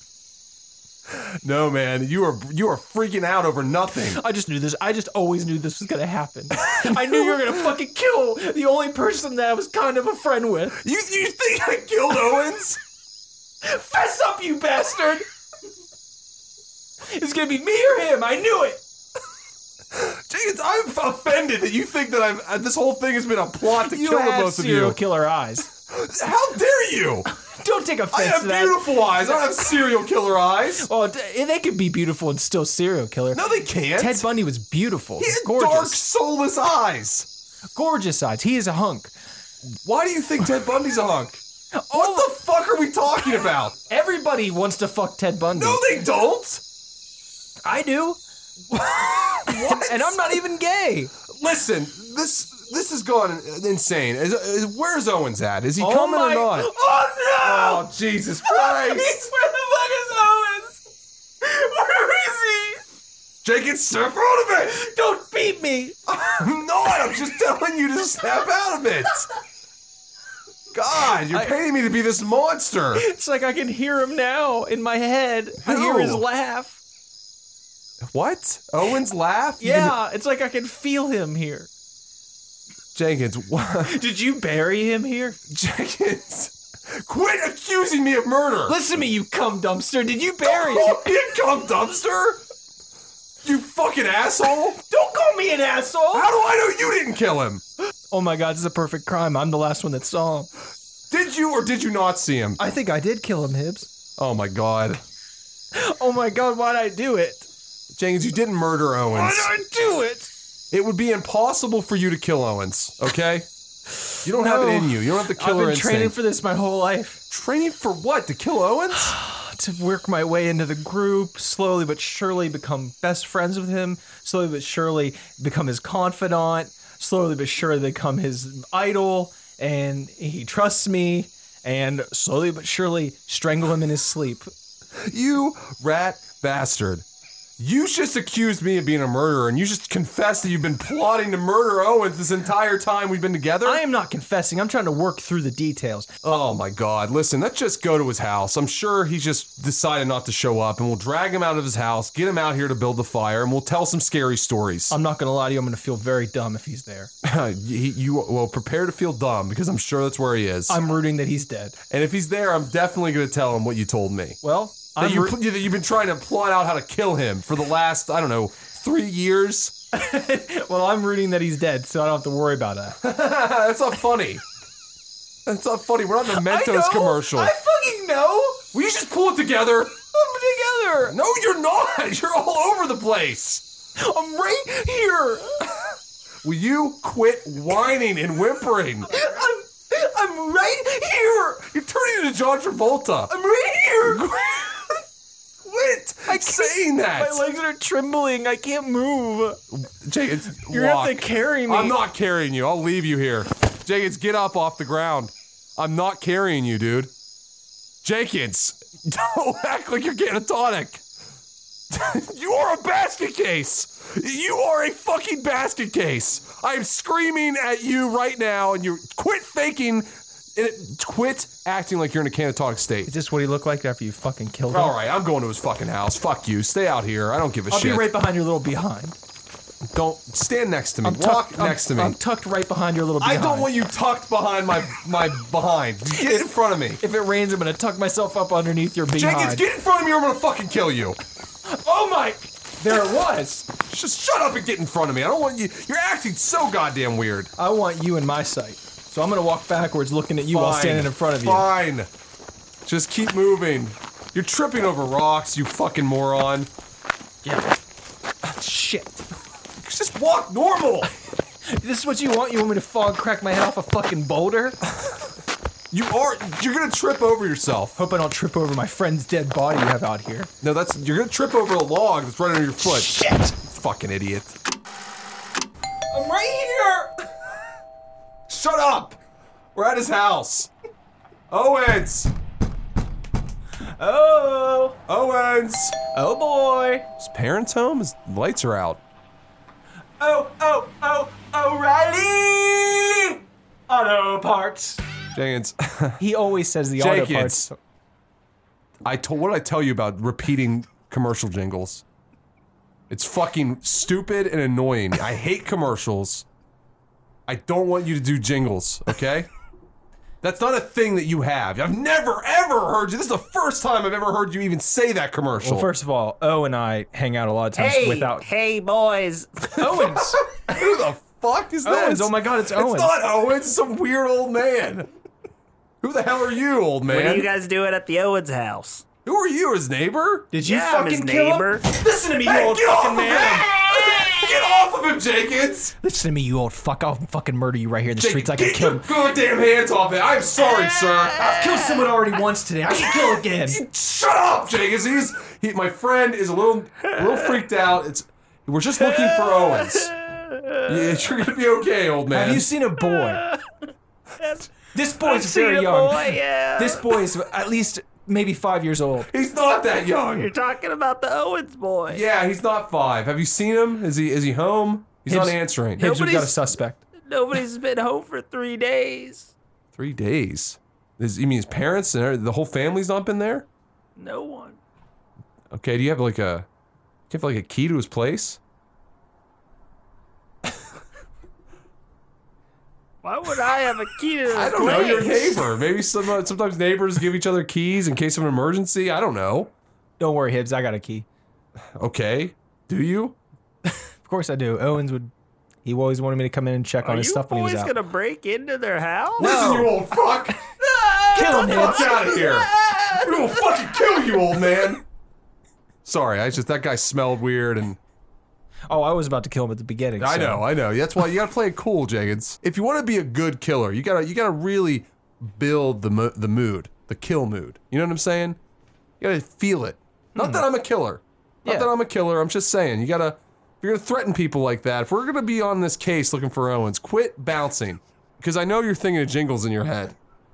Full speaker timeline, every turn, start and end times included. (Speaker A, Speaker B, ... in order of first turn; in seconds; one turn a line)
Speaker A: 1.1-4.2
Speaker B: 4.1-10.8
Speaker A: 6.6-7.6
Speaker A: 10.8-12.8
Speaker B: 13.6-15.2
Speaker B: 17.1-18.8
Speaker A: 19.9-25.0
Speaker B: 23.7-25.7
Speaker A: 25.9-27.2
Speaker B: 27.4-29.3
Speaker A: 28.1-30.9
Speaker B: 30.8-36.0
Speaker A: 33.3-34.3
Speaker A: 35.2-37.3
Speaker B: 37.7-39.1
Speaker A: 39.6-43.8
Speaker B: 41.8-42.3
Speaker B: 43.9-45.9
Speaker A: 45.5-46.6
Speaker B: 47.6-48.2
Speaker A: 48.7-50.3
Speaker B: 49.5-51.1
Speaker A: 51.3-56.7
Speaker B: 55.8-57.9
Speaker A: 57.4-59.3
Speaker B: 58.4-60.8
Speaker B: 61.4-62.8
Speaker A: 63.4-64.8
Speaker B: 64.7-66.0
Speaker A: 66.1-69.3
Speaker A: 70.7-73.0
Speaker B: 71.3-71.5
Speaker B: 72.9-76.8
Speaker A: 75.6-76.2
Speaker A: 78.0-80.0
Speaker B: 79.6-81.7
Speaker A: 82.9-84.0
Speaker B: 83.8-85.4
Speaker A: 85.5-88.8
Speaker B: 88.7-91.1
Speaker A: 90.4-92.4
Speaker A: 93.4-94.8
Speaker B: 94.9-96.3
Speaker A: 96.1-97.6
Speaker B: 98.1-100.5
Speaker A: 101.1-102.6
Speaker B: 102.6-103.9
Speaker A: 104.2-105.0
Speaker B: 105.7-107.5
Speaker A: 107.9-109.5
Speaker B: 109.1-110.3
Speaker A: 110.7-113.5
Speaker A: 114.2-116.2
Speaker B: 114.2-117.2
Speaker A: 117.3-119.2
Speaker B: 118.9-134.5
Speaker A: 134.9-137.1
Speaker A: 137.6-143.8
Speaker B: 143.6-146.1
Speaker A: 146.2-154.9
Speaker B: 154.9-157.1
Speaker A: 157.2-160.8
Speaker B: 160.7-161.8
Speaker A: 161.9-164.4
Speaker B: 164.4-165.4
Speaker A: 165.0-169.7
Speaker B: 169.9-173.0
Speaker A: 173.0-174.4
Speaker A: 175.4-177.5
Speaker B: 176.3-178.6
Speaker A: 178.7-179.9
Speaker B: 180.1-181.2
Speaker A: 181.1-183.6
Speaker B: 184.0-185.7
Speaker A: 186.4-189.1
Speaker B: 189.1-191.7
Speaker A: 191.6-193.3
Speaker B: 193.3-194.3
Speaker A: 194.0-194.9
Speaker A: 195.6-197.4
Speaker B: 196.3-199.6
Speaker A: 199.7-207.1
Speaker B: 200.7-202.0
Speaker A: 208.0-211.0
Speaker A: 211.9-223.1
Speaker B: 223.1-224.9
Speaker A: 224.7-228.1
Speaker B: 227.7-229.2
Speaker A: 229.8-232.2
Speaker B: 231.0-233.7
Speaker A: 233.2-237.0
Speaker B: 236.2-236.4
Speaker B: 237.0-239.6
Speaker A: 239.1-241.2
Speaker B: 241.7-243.7
Speaker A: 243.9-247.5
Speaker B: 247.6-251.7
Speaker A: 250.4-252.1
Speaker A: 252.8-256.7
Speaker B: 257.4-257.7
Speaker B: 258.5-259.2
Speaker A: 259.8-261.1
Speaker B: 261.7-264.8
Speaker A: 265.9-268.0
Speaker B: 267.9-270.5
Speaker A: 270.6-274.6
Speaker B: 272.8-273.5
Speaker B: 276.1-277.1
Speaker A: 278.5-279.2
Speaker A: 279.7-280.7
Speaker A: 281.5-282.3
Speaker B: 284.0-285.0
Speaker A: 285.1-285.9
Speaker B: 286.1-287.1
Speaker A: 287.2-289.0
Speaker B: 290.2-295.0
Speaker A: 295.3-296.2
Speaker B: 296.2-297.8
Speaker A: 297.0-297.7
Speaker A: 299.0-302.0
Speaker A: 303.1-306.4
Speaker A: 307.5-309.5
Speaker A: 310.4-315.9
Speaker B: 315.6-318.4
Speaker C: 317.8-319.5
Speaker A: 319.7-325.1
Speaker B: 319.8-320.5
Speaker B: 321.8-323.1
Speaker A: 326.0-327.5
Speaker C: 327.1-329.0
Speaker A: 329.2-330.5
Speaker B: 330.5-333.7
Speaker C: 330.6-331.8
Speaker A: 332.4-335.9
Speaker B: 336.0-339.1
Speaker A: 338.1-341.4
Speaker B: 341.4-343.8
Speaker A: 343.6-350.1
Speaker C: 347.1-347.6
Speaker C: 349.0-351.2
Speaker A: 350.9-352.7
Speaker B: 352.3-353.4
Speaker C: 353.1-353.6
Speaker C: 354.4-357.1
Speaker B: 354.9-359.3
Speaker A: 359.3-360.5
Speaker C: 360.3-362.2
Speaker A: 362.1-366.1
Speaker B: 365.2-367.0
Speaker C: 366.0-366.6
Speaker C: 367.2-369.5
Speaker A: 369.9-373.7
Speaker C: 374.2-374.8
Speaker A: 375.7-376.7
Speaker A: 377.3-378.6
Speaker C: 383.2-385.6
Speaker A: 384.5-389.7
Speaker B: 390.2-391.3
Speaker A: 391.9-393.4
Speaker B: 394.2-395.3
Speaker B: 395.8-397.9
Speaker C: 397.0-399.9
Speaker A: 399.4-400.6
Speaker B: 399.4-399.8
Speaker C: 400.8-403.5
Speaker B: 401.3-402.2
Speaker A: 401.4-405.0
Speaker A: 406.0-408.0
Speaker B: 408.9-410.6
Speaker A: 410.2-418.6
Speaker A: 419.2-430.1
Speaker B: 420.4-420.7
Speaker B: 421.6-421.9